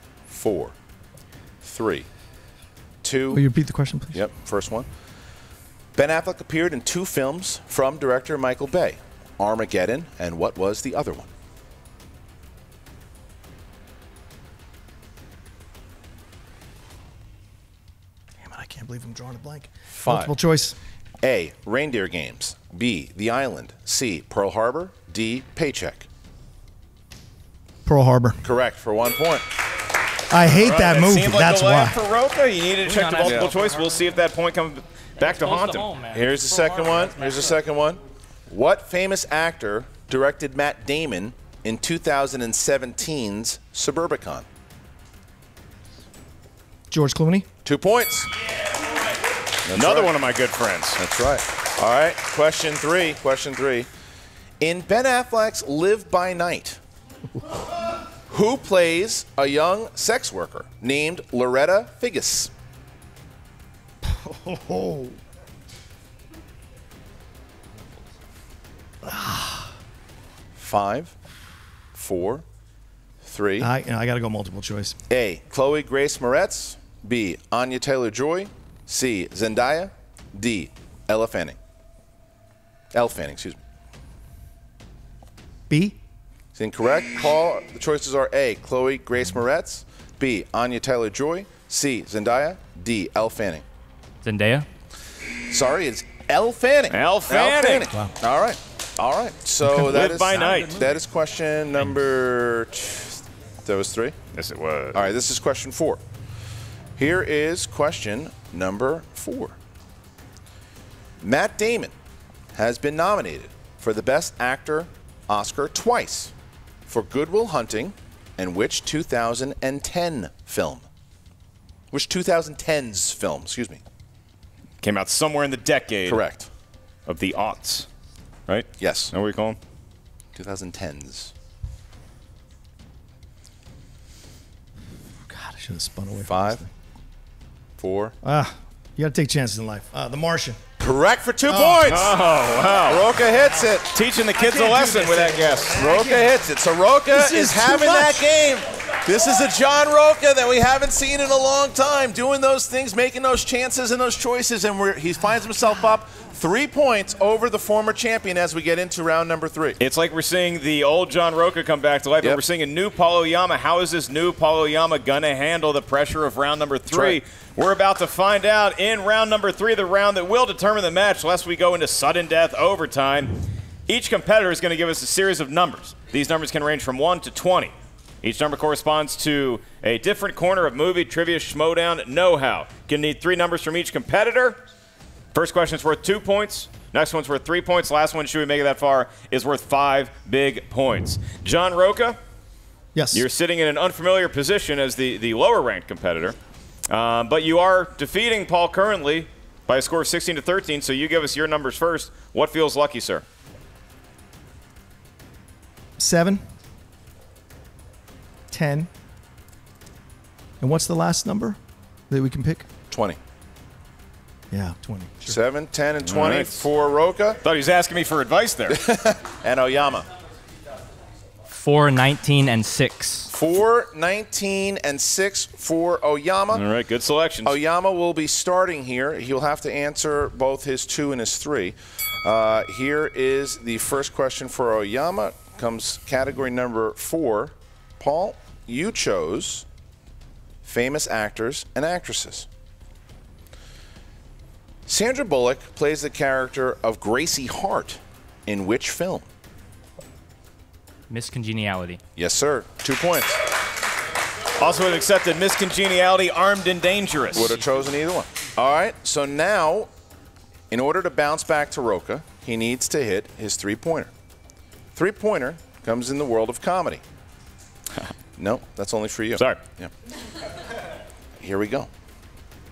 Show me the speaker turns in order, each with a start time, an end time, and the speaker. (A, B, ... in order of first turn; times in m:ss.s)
0:00.3-0:00.7 A
0:01.6-0:02.1 A
0:03.0-0:03.5 A
0:03.3-0:04.2 B
0:04.1-0:04.9 A
0:06.0-0:11.3 A
0:18.4-0:20.8 B
0:19.9-0:20.3 A
0:21.2-0:26.1 A
0:27.9-0:28.4 B
0:28.4-0:29.5 A
0:30.3-0:32.0 B
0:30.5-0:35.9 C
0:32.8-0:34.0 D
0:33.2-0:33.5 A
0:35.2-0:37.6 D
0:36.1-0:44.5 A
0:46.9-0:47.5 B
0:47.6-0:48.3 A
0:49.7-0:50.1 A
0:49.7-0:51.0 C
0:51.0-0:53.9 A
0:54.6-0:56.8 A
0:58.3-1:02.5 A
1:04.0-1:05.2 B
1:09.0-1:09.7 B
1:10.6-1:11.1 A
1:11.9-1:12.4 A
1:13.2-1:13.7 A
1:13.6-1:15.0 B
1:15.1-1:21.6 A
1:22.9-1:23.6 A
1:25.7-1:26.0 B
1:26.6-1:33.6 A
1:34.2-1:34.7 D
1:35.5-1:44.2 A
1:36.9-1:37.9 C
1:39.6-1:39.9 B
1:39.8-1:40.8 C
1:40.4-1:41.0 D
1:44.3-1:45.1 C
1:45.0-1:46.0 A
1:47.0-1:49.6 A
1:51.2-1:51.9 A
1:52.6-1:56.3 A
1:56.9-2:00.8 A
2:01.9-2:03.8 A
2:04.8-2:06.2 C
2:06.1-2:06.5 A
2:07.1-2:07.9 C
2:08.5-2:09.6 C
2:08.8-2:09.1 A
2:10.4-2:11.3 A
2:15.3-2:16.7 B
2:16.3-2:16.6 A
2:17.8-2:18.2 A
2:18.2-2:20.6 B
2:20.8-2:22.2 A
2:21.5-2:21.8 B
2:21.8-2:23.1 C
2:22.9-2:23.9 A
2:23.9-2:25.8 C
2:24.4-2:26.3 B
2:25.7-2:39.8 A
2:27.1-2:28.3 B
2:39.8-3:04.6 C
2:46.9-2:47.2 A
3:05.3-3:12.2 C
3:12.9-3:13.2 B
3:13.1-3:16.4 C
3:16.9-3:23.2 C
3:26.0-3:26.4 B
3:28.5-3:28.9 B
3:30.6-3:31.6 B
3:32.1-3:32.7 B
3:32.9-3:33.2 A
3:34.5-3:35.4 B
3:35.2-3:37.4 A
3:36.0-3:36.6 C
3:37.4-3:38.8 C
3:38.7-3:40.1 A
3:41.5-3:43.3 D
3:43.3-3:46.6 A
3:46.5-3:47.6 C
3:47.4-3:59.6 A
4:00.6-4:02.5 A
4:04.9-4:09.3 A
4:11.1-4:12.0 D
4:12.2-4:13.4 A
4:14.6-4:17.6 C
4:17.3-4:19.9 A
4:20.7-4:24.1 A
4:25.0-4:27.0 A
4:28.4-4:29.9 A
4:31.4-4:31.9 A